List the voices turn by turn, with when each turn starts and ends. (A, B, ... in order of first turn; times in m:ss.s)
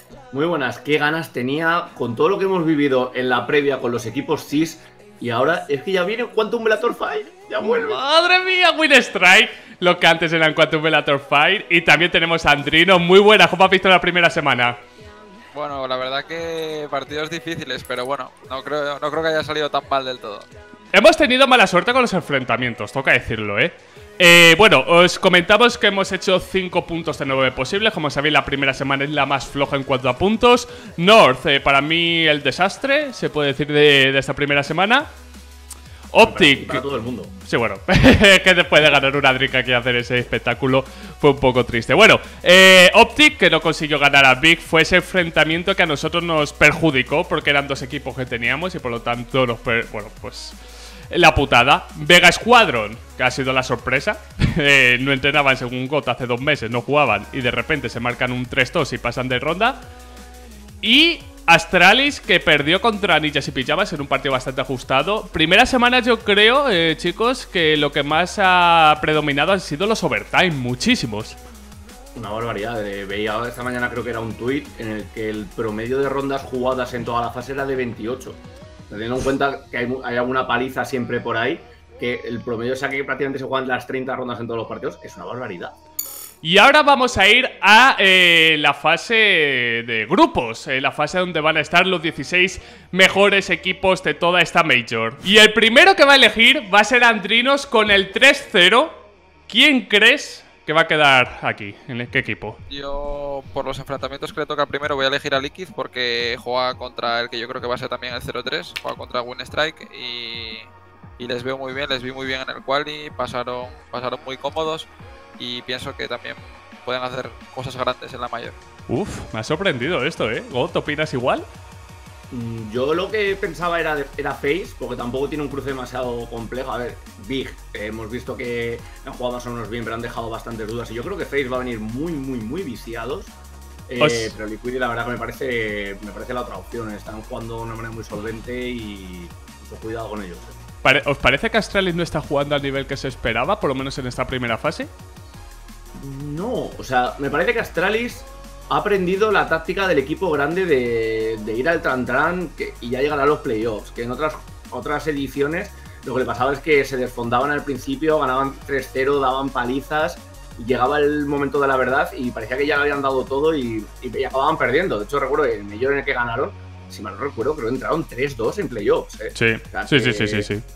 0:00.3-0:08.0 A
0:07.6-0:14.8 B
0:15.5-0:20.5 C
0:20.9-0:35.1 B
0:36.1-0:36.8 B
0:36.2-0:37.4 A
0:37.4-0:50.6 B
0:51.1-0:59.8 B
1:00.8-1:11.4 B
1:12.1-1:25.7 A
1:26.4-1:42.6 B
1:42.7-1:58.6 C
1:58.9-2:01.5 B
2:02.3-2:13.3 A
2:13.9-2:20.6 A
2:14.0-2:14.4 B
2:20.8-2:24.9 B
2:25.9-2:50.5 A
2:49.3-2:50.6 B